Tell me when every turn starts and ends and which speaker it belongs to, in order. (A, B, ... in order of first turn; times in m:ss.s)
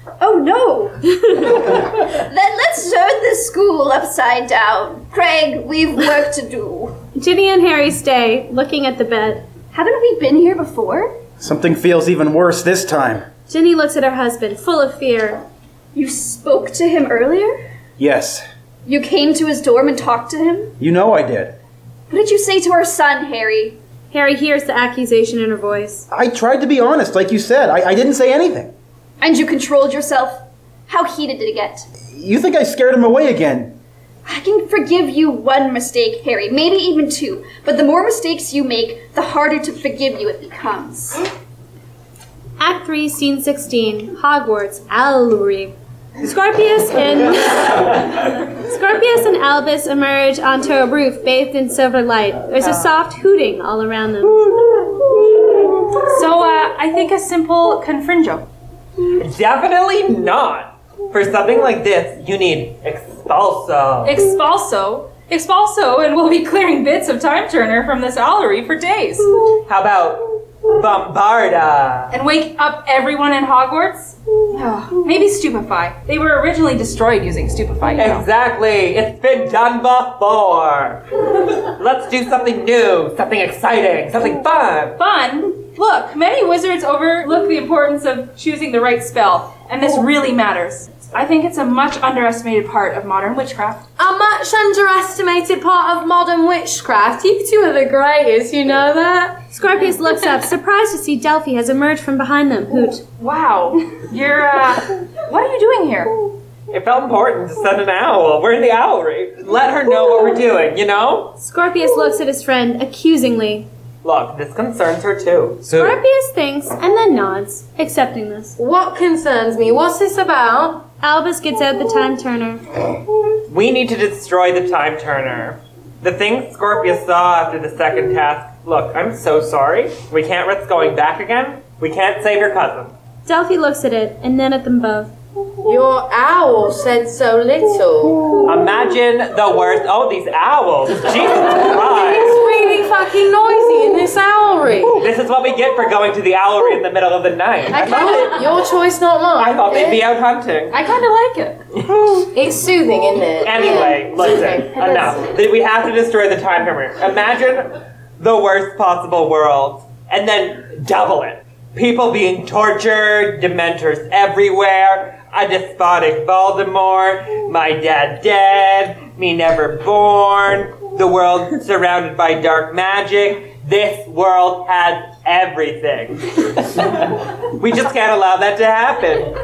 0:00.2-0:07.0 A
0:07.1-0:09.4 B
0:09.7-0:11.2 A
0:11.4-0:13.2 C
0:13.5-0:15.4 B
0:15.9-0:17.6 A
0:18.0-0:18.4 C
0:18.8-0:20.7 A
0:20.8-0:21.5 C
0:22.1-0:23.8 A
0:24.1-0:26.1 B
0:26.1-0:28.7 C
0:29.2-0:31.8 A
0:32.1-0:33.8 C
0:34.2-0:41.2 A
0:42.6-0:54.8 B
0:56.0-0:58.5 D
0:59.2-1:04.2 E
1:04.0-1:09.4 D
1:09.7-1:12.1 E
1:12.1-1:18.2 D
1:18.0-1:25.0 E
1:25.0-1:33.8 D
1:34.0-1:39.4 F
1:39.5-1:43.0 B
1:43.2-1:46.1 D
1:46.7-1:51.4 E
1:51.4-1:53.7 B
1:54.0-1:56.0 E
1:55.7-1:58.6 B
1:58.6-2:00.8 F
2:01.0-2:02.6 B
2:03.5-2:12.9 E
2:13.2-2:15.1 B
2:15.6-2:18.4 F
2:18.4-2:22.4 E
2:21.5-2:25.1 F
2:25.0-2:28.5 E
2:27.7-2:30.0 F
2:29.4-2:30.8 E
2:30.7-2:31.6 D
2:32.0-2:35.2 F
2:33.4-2:59.4 E